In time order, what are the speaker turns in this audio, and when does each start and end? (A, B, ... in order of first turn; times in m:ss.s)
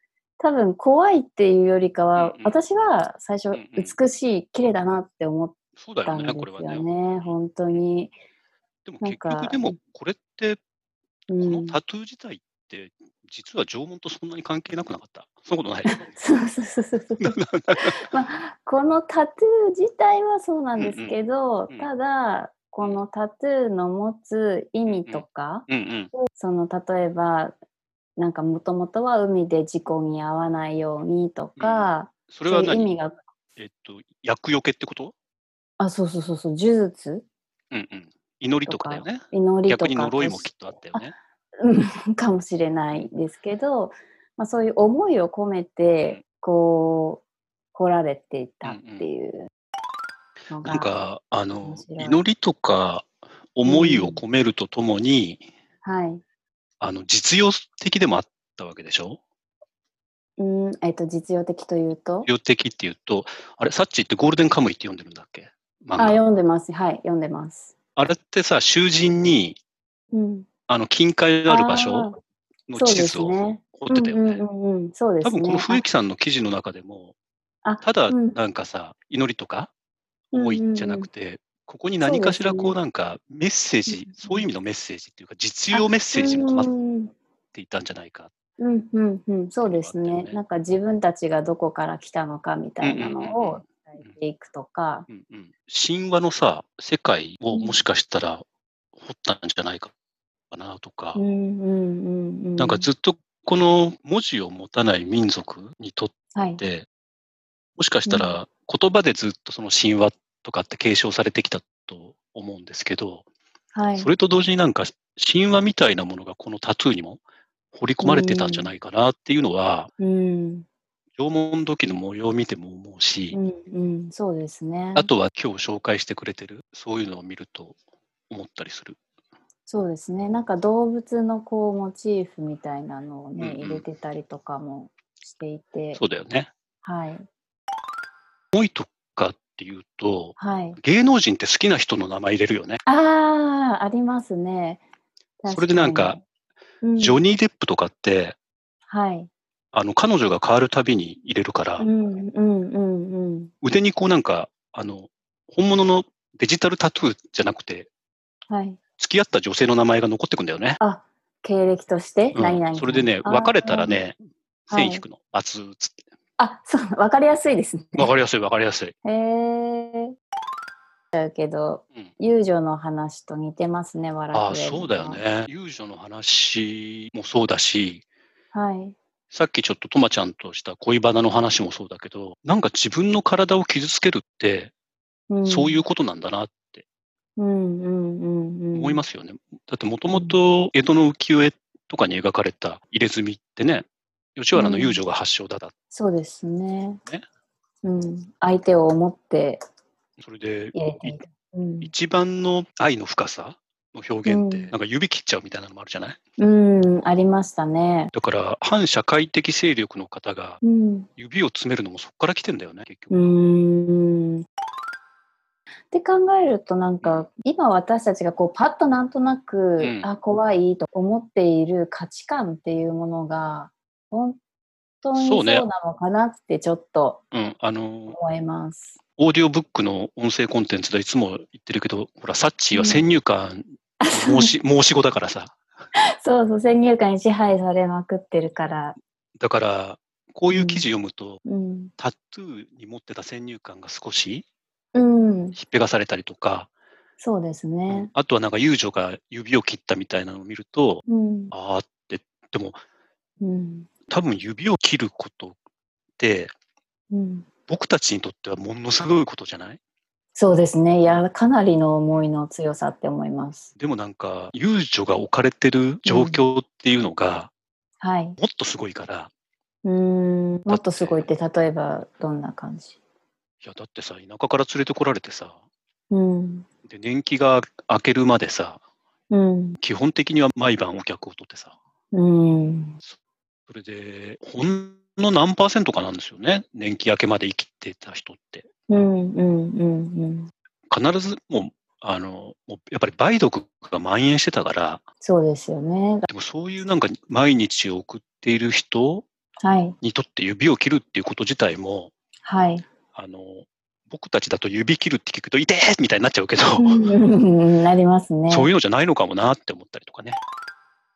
0:00.4-0:08.1 A
0:02.2-0:02.5 B
0:03.5-0:03.9 B
0:05.8-0:07.3 B
0:08.8-0:10.6 B
0:09.0-0:09.8 A
0:11.3-0:11.8 A
0:11.4-0:16.0 B
0:15.8-0:27.6 A
0:17.2-0:17.9 B
0:20.8-0:21.2 B
0:24.9-0:26.1 B
0:28.2-0:33.2 A
0:31.6-0:32.9 B
0:33.6-0:35.1 B
0:35.8-0:37.2 A
0:37.7-0:41.1 B
0:38.7-0:47.2 A
0:47.7-0:49.5 A
0:48.6-0:49.1 B
0:50.5-0:50.9 A
0:50.6-0:55.4 B
0:51.6-0:52.2 A
0:53.6-0:54.2 A
0:55.8-0:56.2 A
0:56.8-0:59.2 B
1:00.4-1:02.3 A
1:02.2-1:06.2 B
1:06.0-1:07.7 A
1:08.0-1:09.6 B
1:10.1-1:10.5 A
1:10.7-1:12.1 B
1:11.5-1:12.2 A
1:12.7-1:14.4 B
1:12.7-1:15.8 A
1:15.2-1:17.1 B
1:17.6-1:18.4 A
1:17.8-1:19.7 B
1:20.3-1:26.7 B
1:20.3-1:21.1 A
1:22.0-1:22.8 A
1:23.9-1:24.4 A
1:25.7-1:27.1 A
1:27.5-1:28.3 B
1:28.6-1:35.1 A
1:29.6-1:30.4 B
1:32.8-1:34.1 B
1:35.1-1:39.9 B
1:37.5-1:37.8 A
1:40.5-1:41.2 B
1:41.2-1:42.9 A
1:42.6-1:46.9 B
1:46.3-1:46.6 A
1:47.8-1:53.2 B
1:48.1-1:48.4 A
1:53.7-1:54.1 A
1:53.9-1:57.2 B
1:57.7-1:59.9 B
1:58.0-1:58.7 A
2:00.0-2:00.6 A
2:01.2-2:03.4 B
2:03.3-2:05.1 A
2:04.9-2:07.8 B
2:08.3-2:09.0 B
2:09.7-2:16.0 A
2:13.4-2:13.8 B
2:16.0-2:16.5 B
2:16.8-2:17.2 A
2:18.5-2:22.8 B
2:20.4-2:20.8 A
2:22.8-2:24.8 A
2:25.4-2:26.2 A
2:25.5-2:26.2 B
2:26.8-2:27.2 A
2:27.0-2:28.4 B
2:28.9-2:29.3 A
2:29.7-2:31.9 B
2:31.8-2:33.5 A
2:33.6-2:37.9 B
2:38.5-2:38.8 A
2:39.0-2:40.8 B
2:40.8-2:44.0 A
2:42.3-2:45.9 B
2:44.7-2:45.0 A
2:46.4-2:48.1 A
2:48.0-2:48.9 B
2:49.0-2:50.1 A
2:51.1-2:55.2 A
2:54.3-2:58.0 B
2:58.5-2:59.0 A
2:59.3-3:04.7 B
3:05.3-3:05.8 A
3:05.4-3:06.8 B
3:07.4-3:09.0 A
3:08.7-3:13.8 B
3:10.1-3:10.4 A
3:14.4-3:15.7 B
3:14.5-3:15.0 A
3:15.9-3:17.0 A
3:17.8-3:19.6 A
3:20.2-3:21.2 B
3:20.7-3:21.9 A
3:21.8-3:26.2 B
3:24.2-3:24.7 A
3:26.4-3:28.1 A
3:28.1-3:30.6 B
3:30.6-3:31.1 A
3:31.2-3:33.3 B
3:33.1-3:34.4 A
3:35.9-3:44.4 A
3:39.8-3:40.1 B
3:45.0-3:47.2 A
3:45.1-3:45.6 B
3:47.3-3:48.2 B
3:48.1-3:49.0 A
3:49.2-3:55.6 B
3:52.7-3:53.0 A
3:54.0-3:54.5 A
3:56.2-3:59.0 A
3:59.4-4:01.4 B
4:00.5-4:00.8 A
4:01.4-4:01.9 A
4:02.0-4:04.4 B
4:04.9-4:05.6 A
4:05.5-4:06.7 B
4:07.2-4:08.1 A
4:07.9-4:12.8 B
4:11.1-4:11.5 A
4:13.4-4:13.9 A
4:14.1-4:15.6 B
4:16.2-4:16.5 B
4:17.1-4:17.5 A
4:17.7-4:19.8 B
4:20.3-4:23.7 A
4:23.8-4:27.5 B
4:26.0-4:26.4 A
4:28.0-4:28.4 A
4:28.4-4:29.3 B
4:29.8-4:32.9 A
4:30.7-4:31.2 B
4:33.6-4:35.6 B
4:36.1-4:36.7 A
4:36.8-4:38.8 B
4:39.3-4:39.8 A
4:39.8-4:41.8 B
4:42.1-4:43.0 A
4:43.7-4:48.7 B
4:48.9-4:50.5 A
4:50.9-4:55.0 B
4:55.2-4:56.3 A
4:56.3-4:59.2 B
4:59.6-5:00.0 A
5:00.0-5:02.1 B
5:02.4-5:02.8 A
5:03.1-5:07.1 B
5:06.8-5:08.7 A
5:08.5-5:10.4 B